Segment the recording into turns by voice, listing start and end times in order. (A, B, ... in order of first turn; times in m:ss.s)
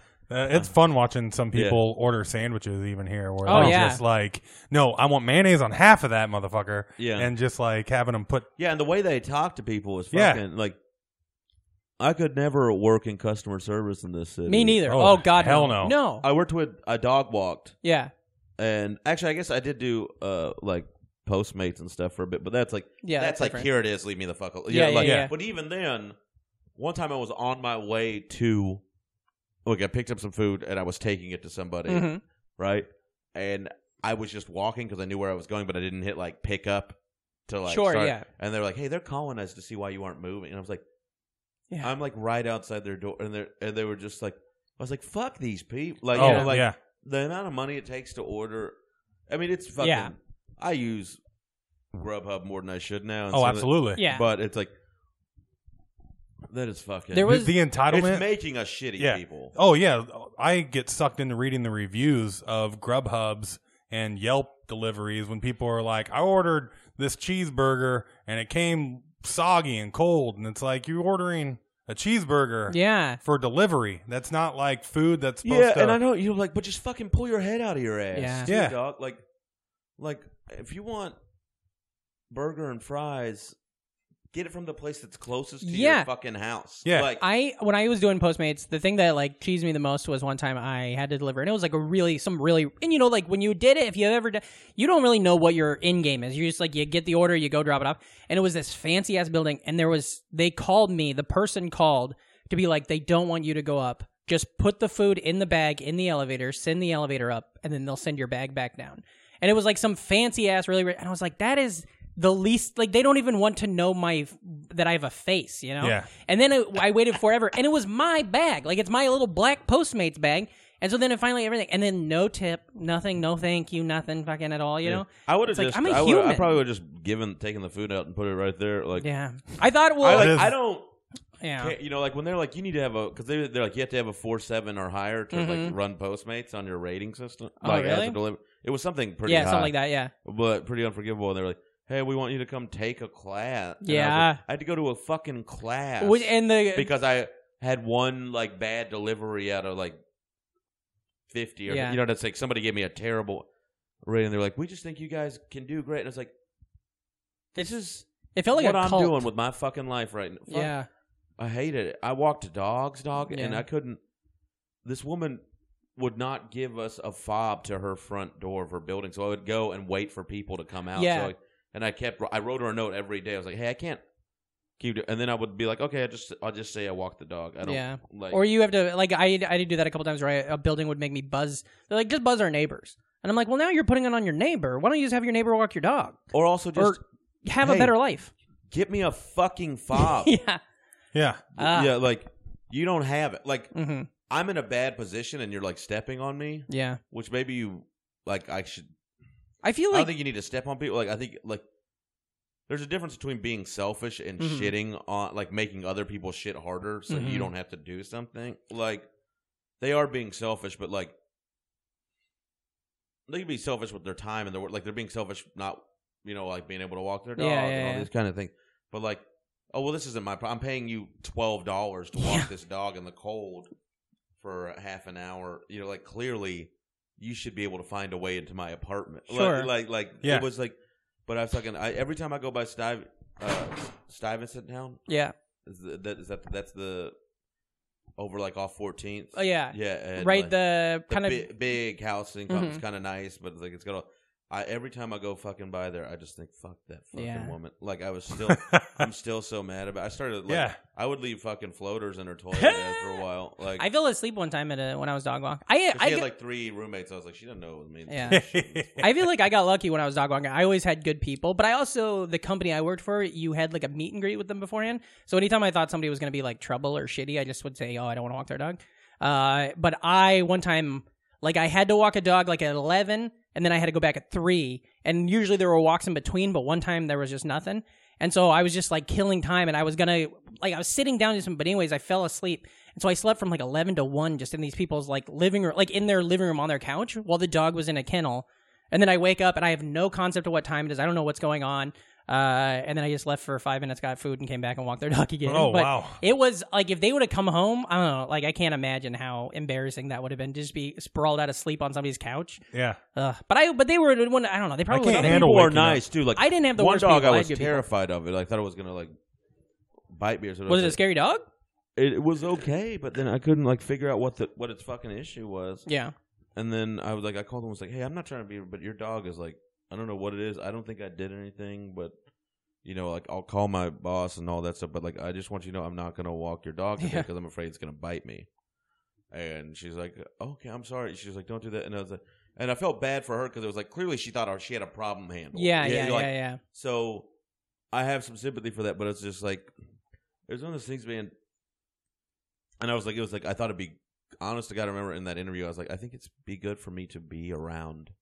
0:00.3-0:08.5 A
0:01.5-0:01.8 B
0:03.5-0:04.0 C
0:03.5-0:03.8 B
0:07.0-0:07.3 B
0:08.6-0:10.8 B
0:10.1-0:10.4 A
0:12.0-0:14.9 B
0:14.5-0:16.2 C
0:14.9-0:16.0 A
0:16.2-0:17.8 B
0:17.8-0:18.1 C
0:18.6-0:26.2 B
0:23.0-0:23.7 C
0:24.7-0:25.3 C
0:25.0-0:25.3 A
0:26.8-0:28.8 B
0:29.7-0:37.0 B
0:31.9-0:32.2 C
0:37.5-0:40.8 B
0:37.7-0:38.3 C
0:41.8-0:48.8 B
0:46.2-0:46.5 C
0:46.2-0:46.8 A
0:49.3-0:51.2 B
0:49.8-0:50.1 C
0:51.9-0:54.7 B
0:53.3-0:54.0 A
0:54.0-0:54.3 C
0:56.5-0:59.6 B
0:57.1-0:57.5 C
0:57.2-0:58.3 A
0:59.0-1:16.0 A
1:12.7-1:13.2 C
1:15.4-1:19.2 B
1:18.2-1:18.5 C
1:18.5-1:18.8 A
1:20.0-1:21.2 B
1:22.3-1:23.6 B
1:24.3-1:27.2 B
1:25.6-1:26.1 C
1:26.8-1:27.1 A
1:27.2-2:06.6 C
1:55.8-1:56.1 A
2:04.8-2:09.1 B
2:09.0-2:10.4 C
2:10.0-2:10.9 B
2:10.1-2:10.5 A
2:11.4-2:11.7 C
2:11.6-2:30.0 B
2:15.3-2:15.8 C
2:17.6-2:18.2 C
2:19.2-2:20.1 C
2:23.8-2:24.4 C
2:26.0-2:26.9 C
2:31.3-2:33.5 B
2:31.7-2:32.0 C
2:34.0-2:36.3 B
2:37.6-2:40.7 B
2:38.4-2:39.3 C
2:40.5-2:40.9 C
2:41.4-2:44.0 B
2:43.3-2:43.6 C
2:44.8-2:45.4 B
2:46.0-2:54.0 B
2:51.0-2:51.3 C
2:54.8-2:58.4 B
2:57.6-3:06.2 C
3:06.3-3:07.0 B
3:06.8-3:08.3 C
3:07.6-3:07.9 B
3:08.7-3:10.3 B
3:10.0-3:10.6 C
3:11.1-3:11.4 A
3:11.6-3:13.8 B
3:11.6-3:11.9 C
3:13.7-3:14.1 C
3:14.3-3:18.9 B
3:16.7-3:17.0 C
3:19.6-3:20.1 C
3:19.9-3:21.6 B
3:22.7-3:29.1 B
3:24.4-3:24.7 C
3:27.1-3:27.5 C
3:29.8-3:31.1 B
3:33.3-3:39.2 B
3:37.4-3:38.1 C
3:39.7-3:43.7 B
3:42.2-3:42.5 C
3:44.4-3:50.8 B
3:49.3-3:49.7 C
3:51.3-3:55.0 B
3:55.1-3:55.3 C
3:55.7-3:57.2 B
3:58.2-4:13.9 B
3:59.4-4:01.5 C
4:02.5-4:02.8 C
4:07.1-4:07.5 C
4:08.5-4:09.1 A
4:10.5-4:10.8 A
4:12.6-4:13.2 C
4:13.8-4:16.3 C
4:15.9-4:19.1 B
4:18.1-4:18.4 C
4:18.3-4:19.1 A
4:19.0-5:02.6 C
4:55.5-4:56.2 A
5:02.7-5:03.0 A
5:03.2-5:05.5 C
5:04.9-5:06.0 A
5:05.1-5:09.2 B
5:06.4-5:07.8 C
5:10.1-5:11.0 B
5:10.7-5:11.4 C
5:12.0-5:15.9 B
5:15.9-5:16.1 C
5:16.6-5:22.1 B
5:22.8-5:28.5 B
5:27.0-5:27.3 C
5:29.3-5:37.3 B
5:35.5-5:36.6 C
5:37.9-5:39.7 B
5:40.5-5:41.3 B
5:42.8-5:48.1 B